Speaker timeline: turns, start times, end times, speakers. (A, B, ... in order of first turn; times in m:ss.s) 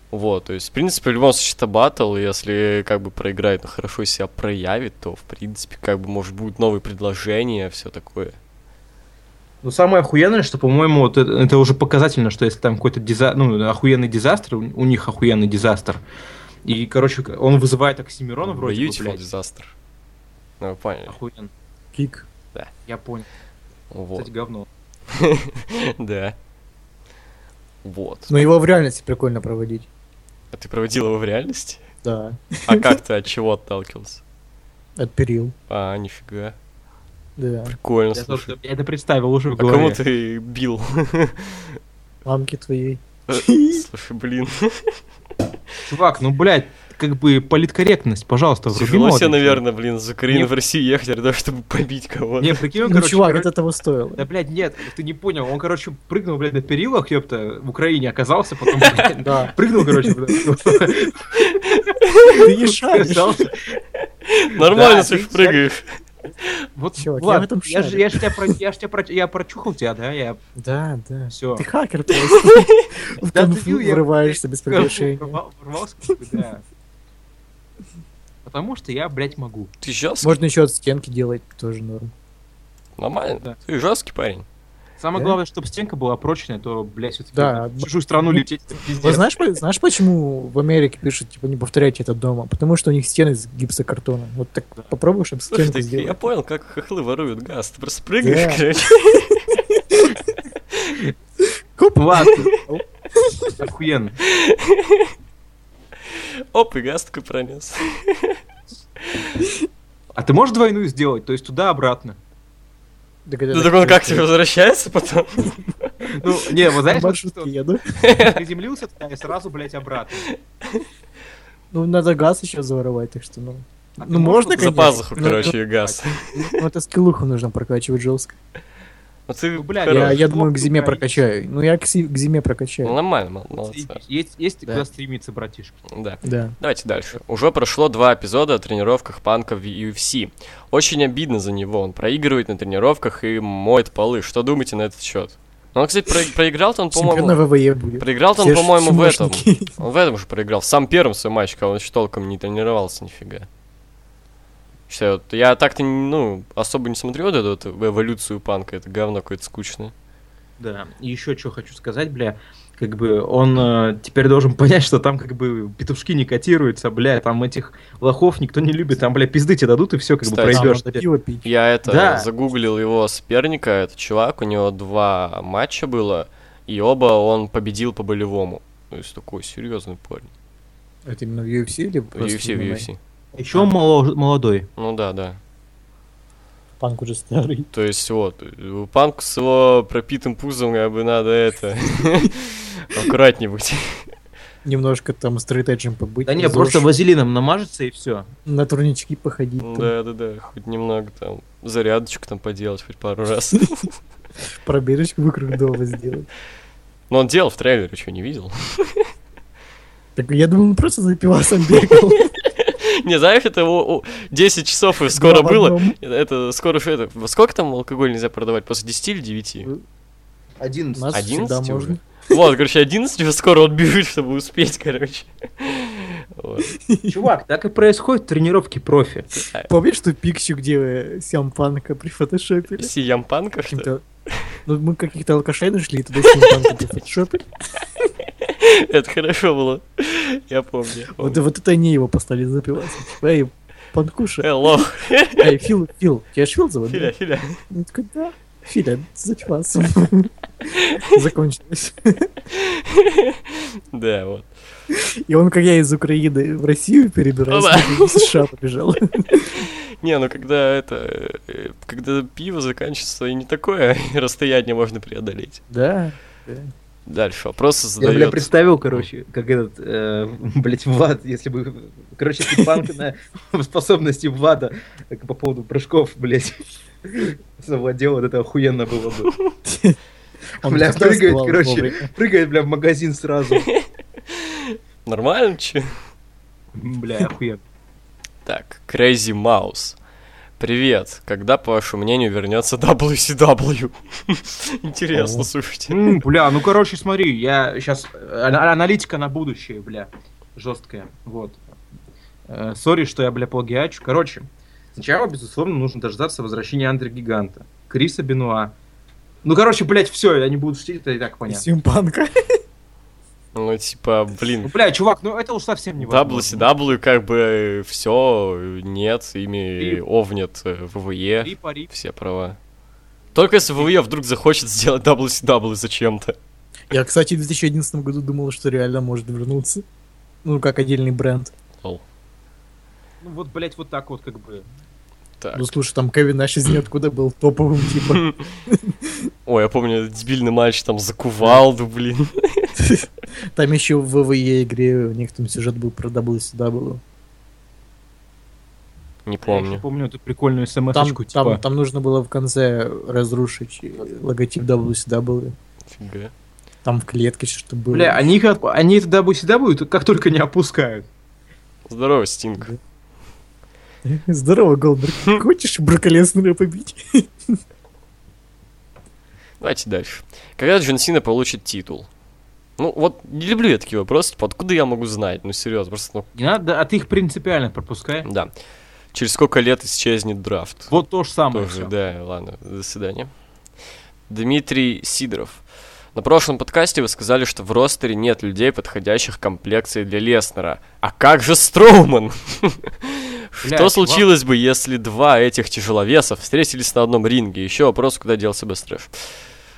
0:00.1-0:08.4 A
0:09.6-0:16.0 B
0:16.6-0:19.3 B
0:18.4-0:19.7 A
0:20.6-0:21.2 A
0:21.1-0:21.5 B
0:21.9-0:22.3 C
0:22.9-0:23.3 B
0:23.9-0:24.3 A
0:24.2-0:24.7 B
0:25.1-0:26.4 A
0:27.8-0:28.4 A
0:28.3-0:29.9 C
0:30.5-0:31.8 A
0:32.0-0:33.0 C
0:32.7-0:34.2 A
0:35.0-0:35.5 C
0:35.7-0:36.6 A
0:37.4-0:37.8 C
0:37.7-0:38.6 A
0:38.1-0:40.0 B
0:39.6-0:41.8 A
0:42.2-0:43.8 C
0:43.3-0:45.0 A
0:45.8-0:49.6 B
0:48.7-0:52.6 A
0:52.4-0:53.5 B
0:52.8-0:54.3 C
0:54.2-1:01.6 B
0:59.2-1:01.1 C
1:01.4-1:02.4 A
1:02.3-1:03.5 C
1:02.3-1:03.8 B
1:04.2-1:06.6 A
1:04.6-1:05.7 B
1:06.8-1:10.4 B
1:07.0-1:08.6 C
1:10.6-1:15.4 C
1:11.3-1:11.6 B
1:12.3-1:12.8 A
1:13.3-1:16.6 B
1:18.4-1:19.7 B
1:19.8-1:20.4 A
1:20.2-1:22.1 C
1:23.0-1:24.4 A
1:25.0-1:29.3 B
1:27.3-1:28.4 C
1:29.0-1:36.2 C
1:35.5-1:39.6 A
1:38.2-1:38.6 C
1:39.7-1:40.1 C
1:41.8-1:43.7 C
1:42.0-1:42.5 B
1:43.6-1:44.2 B
1:44.2-1:45.1 A
1:46.2-1:48.4 A
1:49.4-1:49.7 C
1:50.2-1:52.2 B
1:53.3-1:54.3 C
1:53.5-1:55.9 A
1:56.1-1:57.5 B
1:56.9-1:58.0 C
1:58.0-1:58.4 A
1:58.2-2:00.3 B
2:01.7-2:05.6 C
2:04.0-2:06.2 B
2:04.6-2:06.6 A
2:06.3-2:08.4 C
2:09.3-2:10.2 A
2:09.6-2:11.2 B
2:09.9-2:13.0 C
2:12.8-2:14.0 A
2:13.5-2:15.8 B
2:15.9-2:27.4 A
2:16.2-2:16.6 C
2:26.9-2:29.8 C
2:28.0-2:33.5 A
2:34.9-2:39.9 A
2:40.6-2:51.0 B
2:50.2-2:50.7 A
2:50.5-2:51.5 C
2:51.4-3:00.3 A
2:51.8-2:52.3 B
3:01.1-3:02.9 C
3:02.2-3:03.0 A
3:03.4-3:04.7 B
3:04.8-3:05.4 A
3:06.8-3:07.7 C
3:07.7-3:14.1 A
3:14.6-3:16.9 C
3:16.3-3:18.3 B
3:18.5-3:19.9 C
3:19.6-3:23.9 A
3:24.5-3:26.3 C
3:27.1-3:29.0 A
3:30.2-3:32.3 C
3:31.7-3:39.7 A
3:35.1-3:36.0 C
3:40.6-3:41.2 B
3:40.9-3:42.4 C
3:41.1-3:46.7 A
3:46.7-3:47.3 C
3:47.1-3:49.3 B
3:49.7-3:52.9 C
3:52.8-3:54.4 A
3:53.7-3:54.0 C
3:54.7-3:57.5 C
3:56.4-3:56.7 A
3:58.4-4:01.4 A
4:01.2-4:04.8 C
4:04.4-4:05.5 A
4:05.4-4:07.1 C
4:06.9-4:07.6 A
4:07.7-4:10.3 C
4:10.7-4:11.2 A
4:11.0-4:12.3 C
4:12.5-4:14.5 A
4:14.9-4:19.7 C
4:17.5-4:18.4 A
4:19.3-4:25.6 A
4:25.7-4:26.7 C
4:27.1-4:29.0 A
4:28.0-4:39.3 B
4:39.6-4:40.0 C
4:40.6-4:42.1 C
4:40.6-4:43.7 B
4:43.6-4:46.0 A
4:46.8-4:47.6 B
4:48.5-4:50.0 A
4:50.6-4:56.2 A
4:55.1-4:55.5 C
4:55.9-5:01.6 B
5:02.5-5:08.8 B
5:09.4-5:11.7 B
5:11.5-5:12.6 C
5:13.6-5:14.7 A
5:14.6-5:16.7 B
5:16.0-5:22.6 A
5:21.4-5:21.9 B
5:23.4-5:26.4 A
5:26.9-5:29.8 C
5:30.4-5:31.5 C
5:33.2-5:34.7 B
5:35.4-5:35.7 A
5:35.5-5:39.3 C
5:38.1-5:38.5 A
5:39.5-5:42.7 A
5:42.8-5:47.0 C
5:49.3-5:49.8 A
5:49.4-5:51.6 B
5:50.9-5:55.6 C
5:55.9-5:56.3 A
5:56.8-5:58.3 C
5:57.9-6:01.1 B
6:01.9-6:02.8 A
6:04.0-6:07.6 C
6:09.6-6:12.1 A
6:12.8-6:16.3 A
6:16.4-6:18.3 B
6:18.2-6:18.5 A
6:19.1-6:20.9 A
6:20.9-6:21.9 B
6:21.5-6:23.3 A
6:24.3-6:25.6 A
6:26.2-6:39.3 A
6:33.6-6:34.3 B